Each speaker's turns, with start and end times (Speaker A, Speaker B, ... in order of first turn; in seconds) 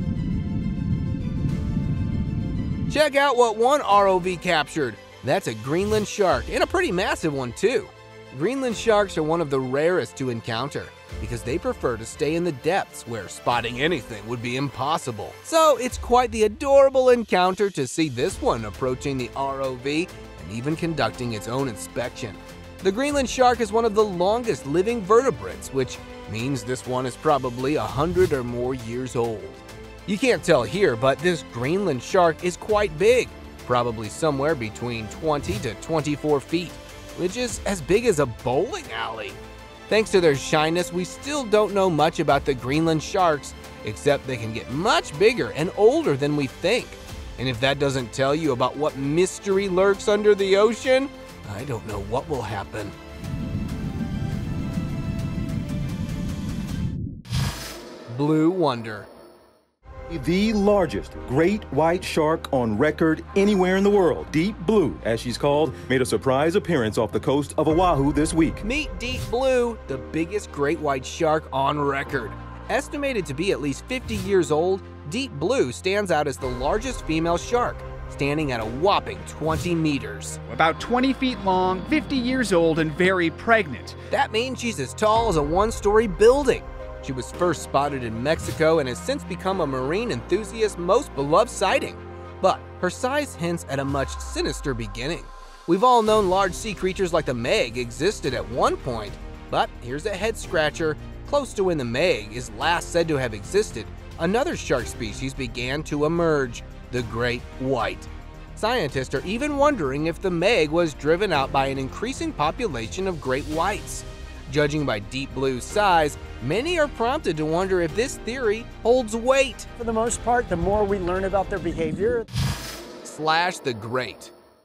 Speaker A: 2.9-52.9, 58.1-59.1, 68.6-80.4, 84.1-119.7, 123.0-124.3
Speaker B: 60.1-68.6
Speaker C: 80.5-84.0
Speaker D: 119.8-122.2